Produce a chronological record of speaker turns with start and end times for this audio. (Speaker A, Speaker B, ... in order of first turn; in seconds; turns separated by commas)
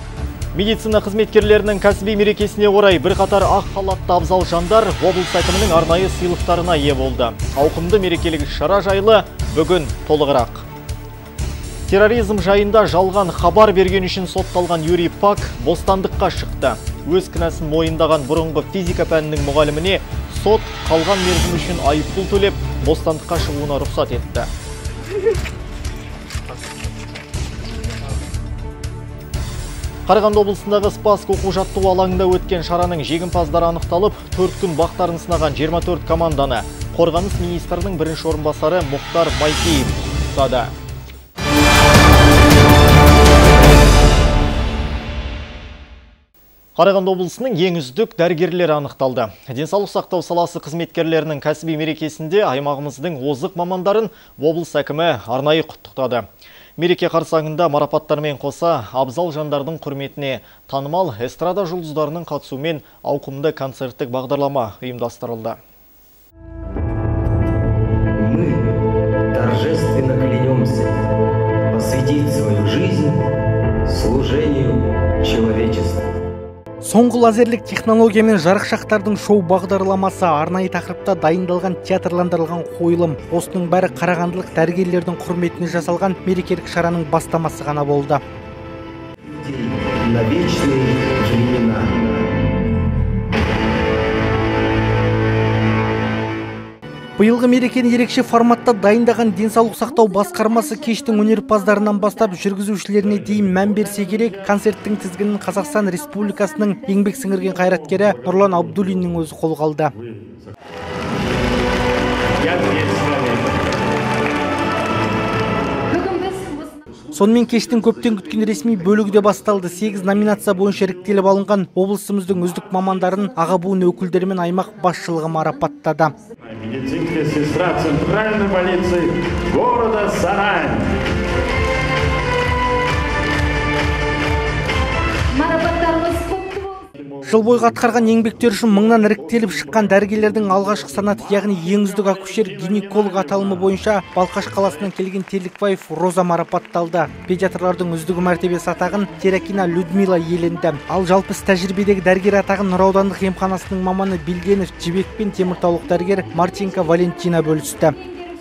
Speaker A: 0.5-10.7, Speaker A: 11.9-24.5, Speaker A: 30.1-40.7, Speaker A: 46.8-65.6, Speaker B: 68.2-71.0, Speaker B: 71.7-73.2, Speaker B: 73.9-76.1, Speaker C: 76.8-88.2, Speaker B: 89.3-92.5, Speaker C: 97.2-109.9, Speaker D: 112.4-113.7, Speaker C: 117.1-126.2, Speaker D: 126.5-130.9, Speaker C: 137.2-158.0